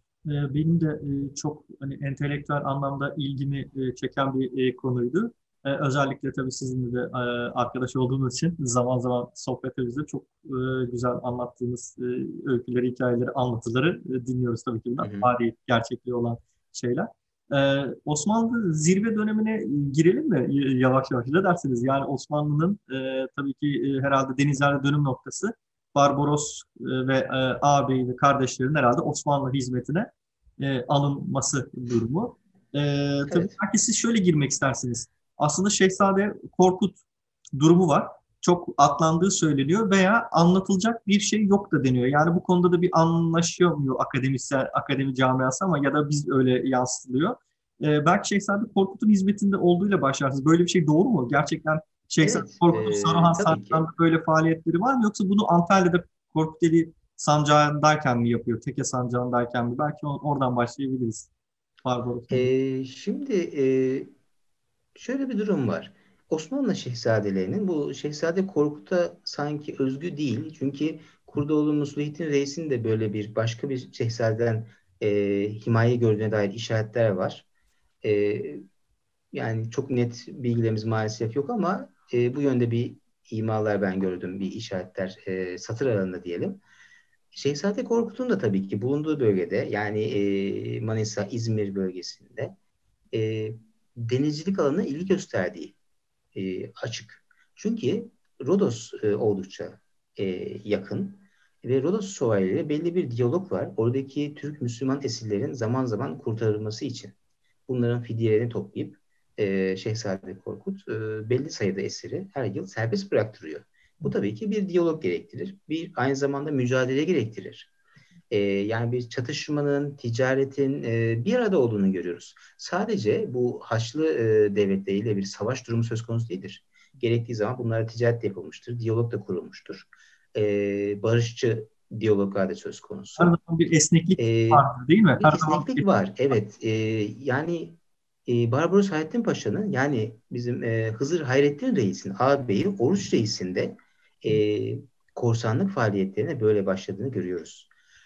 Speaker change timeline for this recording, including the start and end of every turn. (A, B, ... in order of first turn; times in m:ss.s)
0:00.2-0:37.0 A
0:15.0-0:15.3 B
0:33.3-0:33.6 B
0:37.6-1:01.3 A
0:52.2-0:53.9 B
1:01.8-1:02.5 A
1:02.3-1:04.1 B
1:05.0-1:17.5 B
1:18.0-1:18.6 B
1:19.3-1:26.6 B
1:27.3-1:32.6 B
1:33.1-1:35.8 B
1:36.4-1:47.1 B
1:47.7-1:57.7 B
1:58.3-2:13.4 B
2:13.2-2:15.9 A
2:14.2-2:14.7 B
2:15.2-2:27.7 B